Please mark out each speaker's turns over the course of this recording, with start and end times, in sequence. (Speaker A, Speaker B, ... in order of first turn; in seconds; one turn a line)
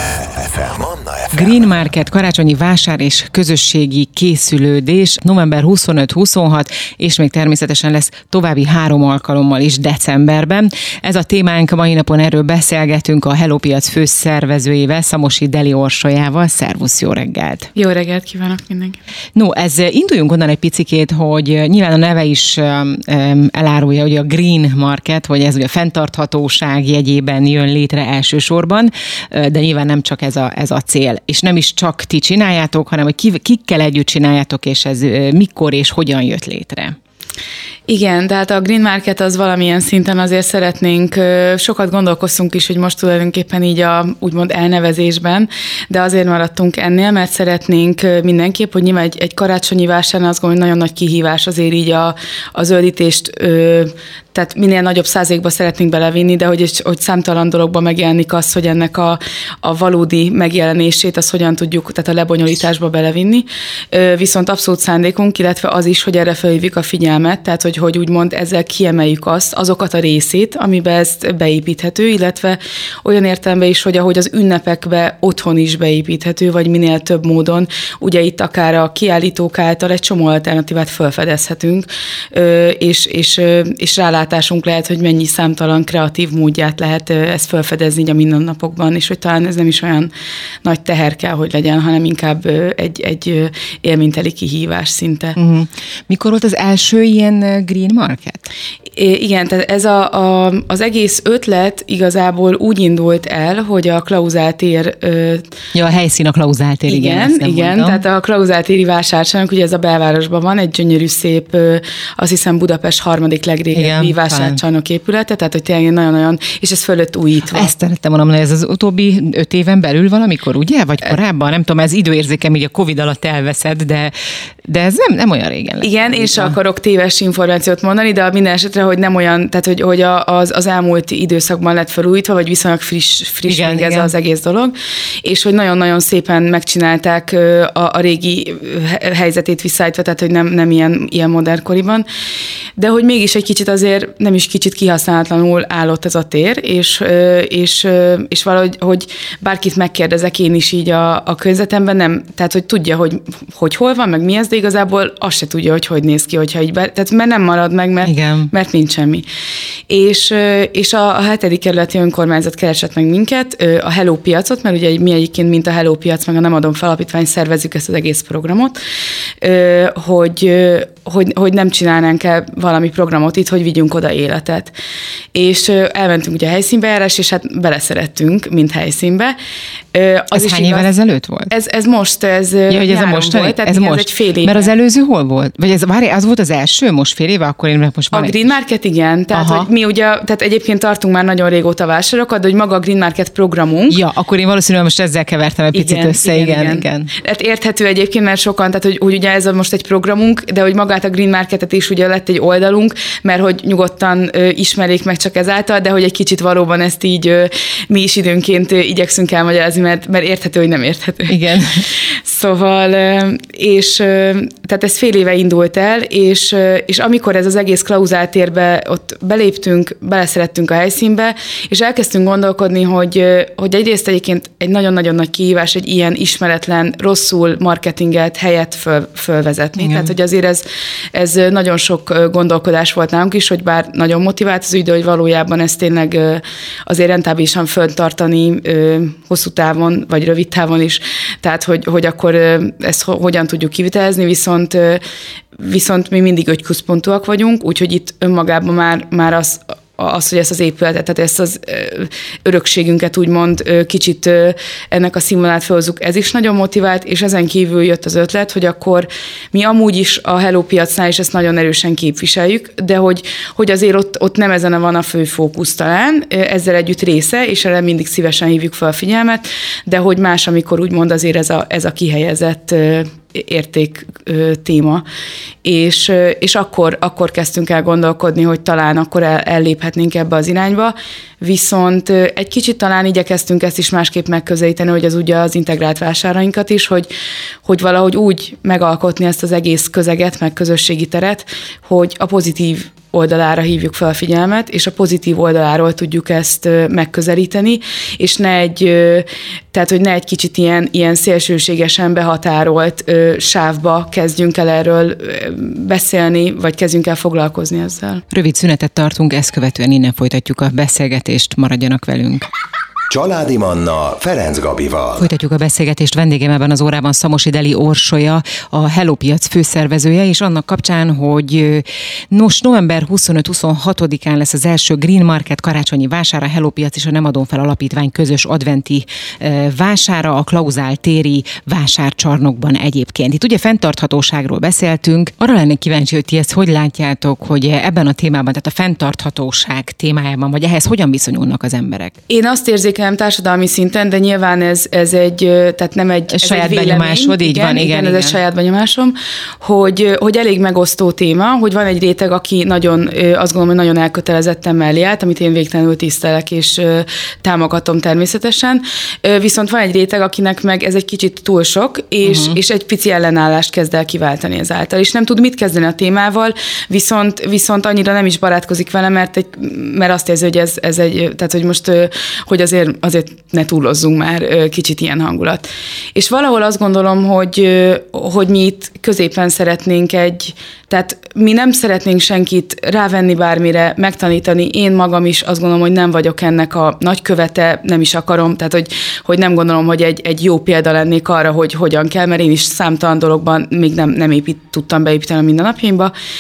Speaker A: 0.3-1.7
Speaker B: 1.3-17.7
Speaker C: 17.8-19.0
Speaker B: 19.4-37.0
Speaker C: 37.9-90.1
Speaker C: 90.6-95.4
Speaker B: 95.4-98.5
Speaker C: 99.0-105.5
Speaker B: 105.7-108.0
Speaker C: 106.9-117.7
Speaker B: 113.7-114.6
Speaker B: 117.5-124.1
Speaker B: 124.7-126.6
Speaker C: 125.8-142.1
Speaker B: 133.5-134.1
Speaker C: 142.8-159.3
Speaker B: 158.0-158.5
Speaker C: 159.9-168.8
Speaker C: 169.4-174.7
Speaker C: 175.3-179.4
Speaker C: 179.9-180.9
Speaker B: 180.3-181.5
Speaker C: 181.5-184.7
Speaker B: 182.7-188.5
Speaker C: 188.1-194.0
Speaker B: 189.3-189.7
Speaker B: 193.9-197.1
Speaker C: 195.7-211.4
Speaker B: 211.3-211.9
Speaker C: 212.0-245.0
Speaker B: 229.8-230.1
Speaker C: 245.6-275.1
Speaker C: 275.6-287.1
Speaker C: 287.6-308.2
Speaker B: 308.3-312.5
Speaker A: 313.1-315.3
Speaker B: 315.2-342.2
Speaker C: 342.3-396.1
Speaker B: 346.3-348.4
Speaker B: 362.2-362.6